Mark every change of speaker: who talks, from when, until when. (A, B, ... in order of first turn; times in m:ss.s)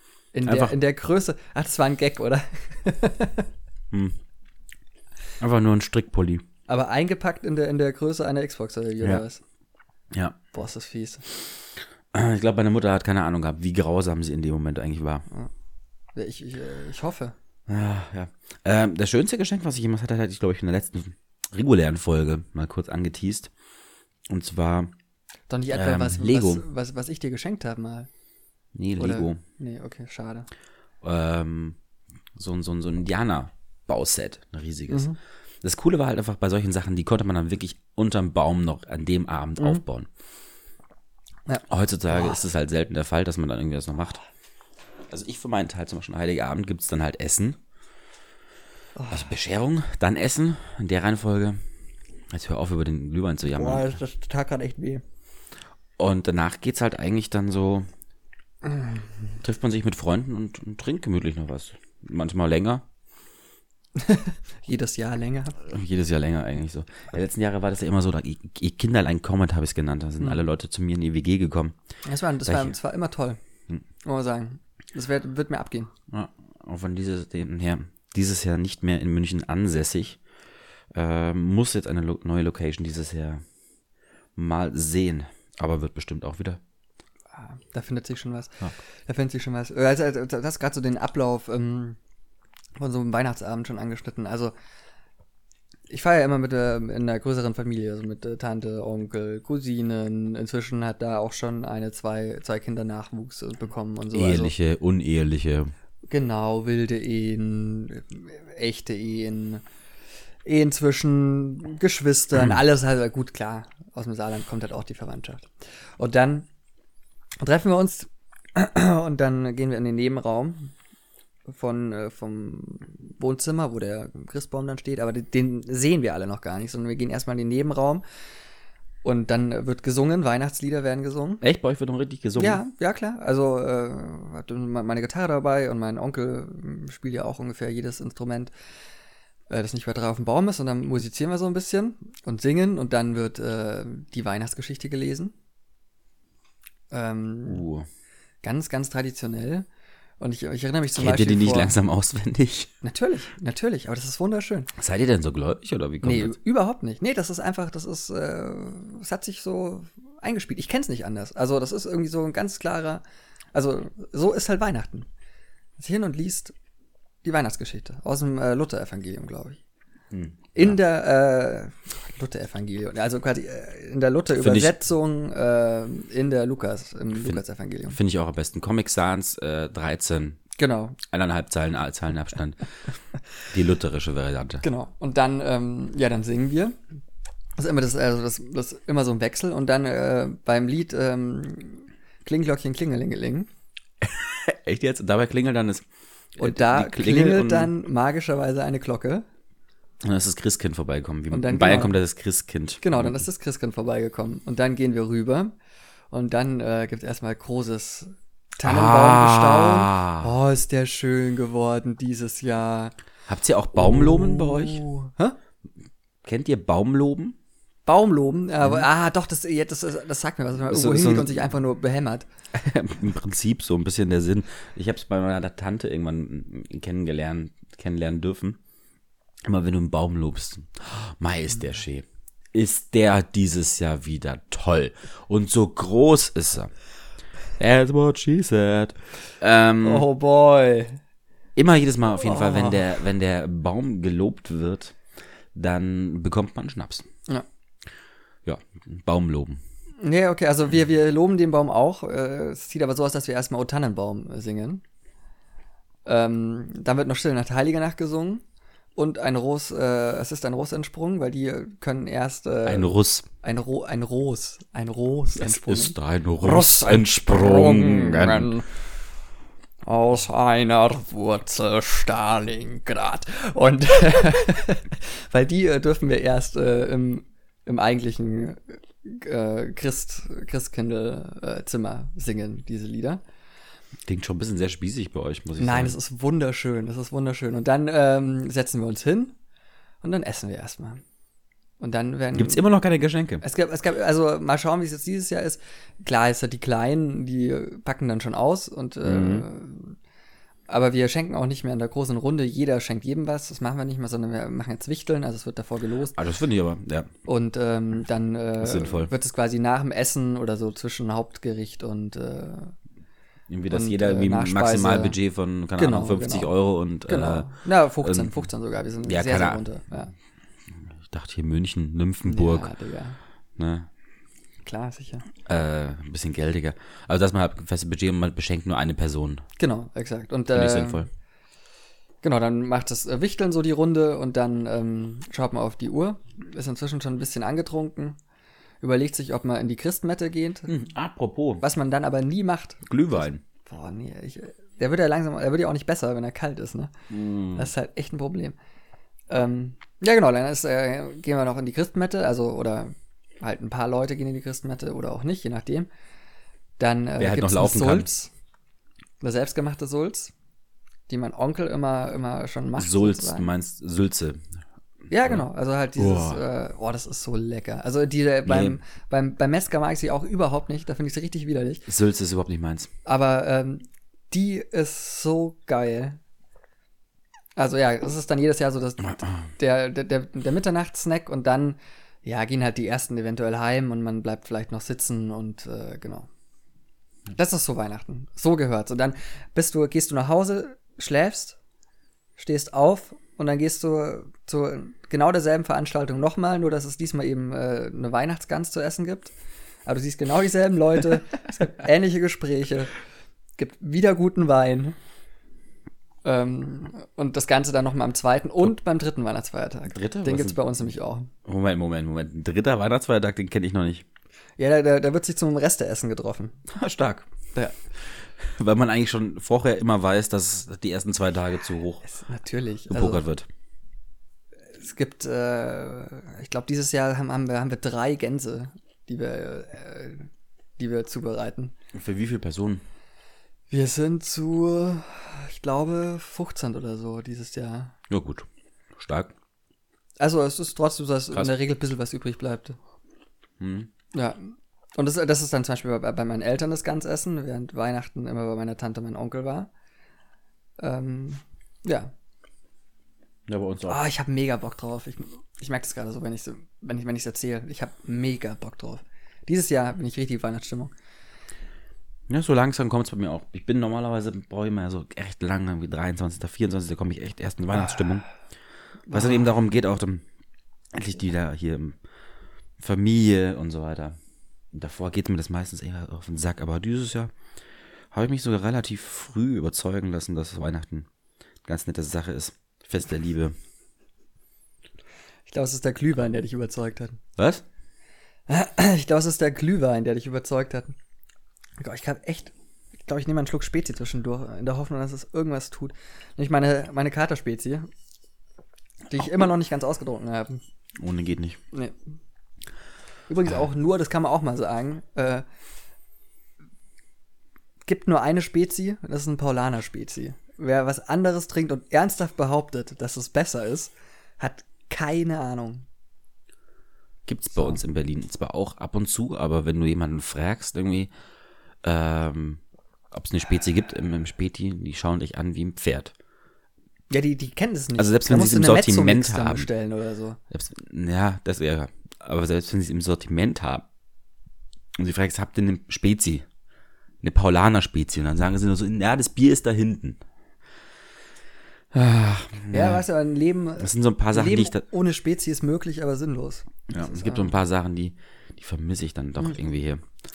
0:00.3-0:03.5 A
0:00.4-0:00.7 B
0:03.9-0:04.2 B
0:05.4-0:06.4 B
0:06.7-0:09.4 A
0:10.1-0:10.4 B
0:10.5-0:11.2 A
0:12.1-0:15.2 B
0:16.2-0:17.3 A
0:17.7-0:23.5 B
0:24.3-0:24.9 B
0:25.5-0:28.1 A
0:25.7-0:26.6 B
0:28.7-0:29.4 B
0:29.0-0:30.5 A
0:31.0-0:31.8 B
0:32.4-0:40.1 B
0:34.9-0:35.2 A
0:41.5-0:42.4 A
0:41.7-0:44.2 B
0:45.1-0:47.6 B
0:49.0-0:49.3 A
0:49.1-0:51.6 B
0:52.3-0:53.9 B
0:53.5-0:55.0 A
0:56.0-0:57.9 B
0:59.4-1:02.8 B
1:04.0-1:05.6 A
1:05.6-1:11.8 B
1:12.0-1:13.4 A
1:12.4-1:12.7 B
1:14.0-1:15.9 A
1:16.1-1:20.2 B
1:20.9-1:23.4 B
1:24.4-1:26.6 B
1:27.4-1:32.0 A
1:32.8-1:34.5 A
1:35.9-1:44.5 A
1:44.1-1:45.7 B
1:46.1-1:49.6 A
1:50.4-1:56.5 A
1:52.4-1:52.6 B
1:57.4-2:00.7 A
2:01.5-2:08.0 A
2:09.0-2:11.4 A
2:11.4-2:12.6 B
2:12.4-2:18.5 A
2:19.5-2:25.3 A
2:26.9-2:27.6 A
2:27.4-2:27.8 B
2:28.4-2:29.6 A
2:30.2-2:31.8 A
2:30.9-2:32.7 B
2:32.8-2:34.7 A
2:34.8-2:36.4 B
2:36.0-2:43.0 A
2:43.5-2:45.1 A
2:45.8-2:46.5 A
2:47.2-2:49.6 A
2:50.1-2:50.8 B
2:50.5-2:58.0 A
2:54.3-2:54.7 B
2:57.9-3:00.4 B
3:00.6-3:01.0 A
3:01.0-3:02.6 B
3:03.5-3:04.6 B
3:04.6-3:06.8 A
3:07.6-3:13.5 A
3:14.0-3:15.8 B
3:16.4-3:17.7 B
3:16.4-3:19.2 A
3:20.0-3:23.2 B
3:21.3-3:22.0 A
3:22.8-3:25.5 A
3:26.1-3:32.9 A
3:28.6-3:30.3 B
3:33.3-3:34.8 B
3:33.7-3:35.4 A
3:36.2-3:37.4 B
3:37.8-3:42.3 A
3:40.6-3:41.4 B
3:42.5-3:48.6 B
3:49.4-3:56.7 B
3:57.6-4:00.0 B
3:59.8-4:01.0 A
4:01.6-4:05.0 B
4:02.1-4:02.9 A
4:05.5-4:07.0 B
4:08.4-4:09.6 B
4:10.0-4:14.8 A
4:16.0-4:18.4 A
4:19.0-4:28.7 A
4:22.6-4:23.3 B
4:25.4-4:28.5 B
4:29.8-4:43.2 A
4:44.1-4:46.0 B
4:45.6-4:49.3 A
4:50.0-4:51.0 A
4:51.8-4:52.6 A
4:52.3-4:53.4 B
4:53.4-5:00.0 A
4:59.0-4:59.4 B
5:00.7-5:06.2 A
5:06.1-5:07.1 B
5:07.3-5:12.7 A
5:08.6-5:09.1 B
5:13.5-5:17.5 B
5:13.7-5:15.2 A
5:15.8-5:16.5 A
5:17.0-5:20.1 A
5:18.0-5:18.4 B
5:19.0-5:19.6 B
5:21.0-5:22.7 B
5:22.2-5:23.2 A
5:23.6-5:23.9 B
5:24.6-5:25.2 A
5:25.4-5:29.4 B
5:29.6-5:31.1 A
5:30.5-5:31.1 B
5:32.2-5:38.2 A
5:38.8-5:40.7 A
5:40.7-5:41.6 B
5:41.6-5:46.9 A
5:42.9-5:43.4 B
5:47.1-5:47.7 B
5:47.5-5:48.6 A
5:49.3-5:55.9 A
5:56.8-5:58.3 A
5:57.2-5:58.1 B
5:59.2-6:00.3 A
6:01.1-6:03.5 A
6:02.8-6:04.5 B
6:05.1-6:11.9 A
6:06.0-6:06.4 B
6:08.4-6:08.8 B
6:11.9-6:12.9 B
6:13.0-6:16.2 A
6:17.6-6:26.3 A
6:27.3-6:31.6 A
6:32.4-6:39.3 A
6:39.8-6:42.9 A
6:43.6-6:45.0 A
6:46.2-6:51.3 A
6:49.9-6:50.6 B
6:51.4-6:54.0 B
6:54.6-6:56.6 A
6:56.7-6:57.3 B
6:58.0-7:02.0 B
7:02.0-7:03.2 A
7:02.9-7:03.5 B
7:04.8-7:11.7 A
7:11.9-7:12.8 B
7:13.7-7:17.9 A
7:18.1-7:19.3 B
7:20.2-7:22.8 A
7:23.6-7:23.9 B
7:24.1-7:29.7 A
7:30.8-7:32.1 A
7:33.5-7:34.0 B
7:33.9-7:40.9 A
7:42.3-7:48.3 B
7:49.1-7:49.5 A
7:49.1-7:50.2 B
7:50.9-7:52.0 B
7:52.8-7:54.2 B
7:54.7-7:57.3 B
7:58.1-8:01.1 B
8:01.6-8:03.5 B
8:05.5-8:07.2 A
8:07.4-8:07.6 B
8:08.5-8:10.9 A
8:11.8-8:12.5 A
8:13.0-8:17.9 A
8:19.1-8:20.6 A
8:21.0-8:21.6 B
8:23.3-8:25.4 A
8:27.8-8:35.8 A
8:37.2-8:41.1 B
8:37.5-8:37.8 A
8:41.8-8:42.6 B
8:43.1-8:46.1 B
8:47.1-8:50.4 A
8:48.0-8:49.7 B
8:50.5-8:53.9 B
8:55.0-8:56.4 B
8:57.2-9:00.2 B
9:01.9-9:03.0 B
9:02.7-9:07.5 A
9:03.8-9:04.8 B
9:06.9-9:10.0 B